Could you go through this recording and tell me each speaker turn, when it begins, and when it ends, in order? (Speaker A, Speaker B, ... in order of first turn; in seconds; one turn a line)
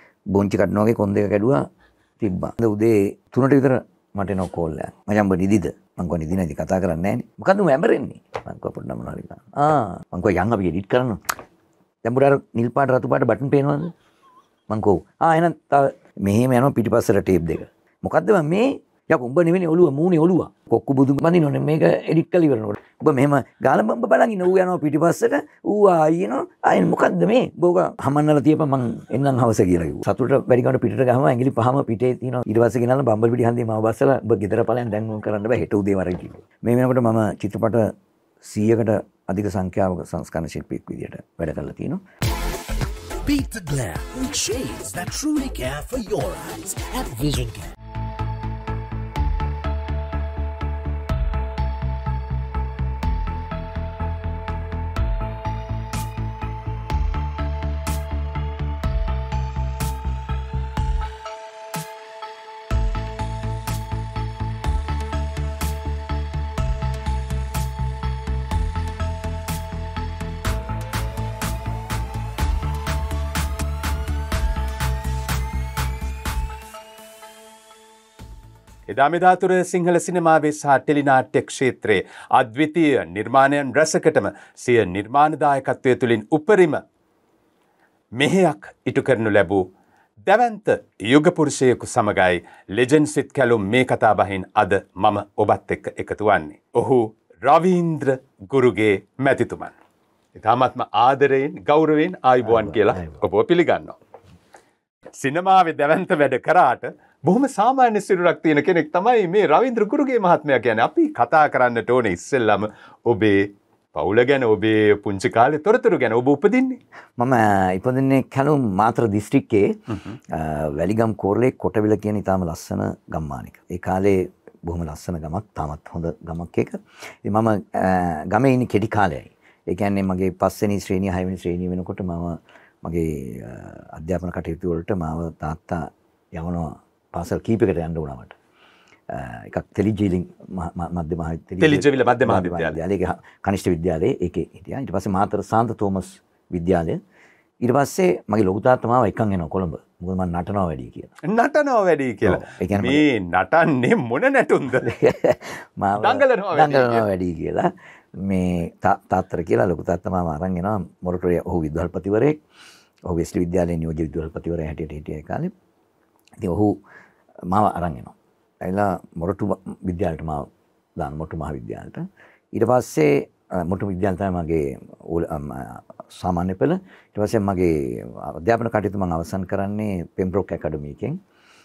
Speaker A: 0.3-1.6
Speaker A: 2.2-11.2
Speaker A: 12.0-13.9
Speaker A: 14.7-37.9
Speaker A: 38.4-42.0
Speaker B: 43.2-47.7
Speaker C: 78.9-86.8
Speaker C: 88.2-89.6
Speaker C: 90.2-99.7
Speaker C: 100.3-104.0
Speaker A: 102.4-103.2
Speaker C: 105.2-116.8
Speaker A: 117.2-138.3
Speaker A: 139.1-147.0
Speaker C: 141.6-142.8
Speaker A: 147.6-151.1
Speaker C: 151.2-154.9
Speaker A: 152.2-153.0
Speaker A: 154.8-162.4
Speaker C: 156.0-157.1
Speaker A: 163.1-165.5
Speaker A: 166.4-166.7
Speaker A: 167.5-170.5
Speaker A: 171.0-172.0
Speaker A: 172.5-181.2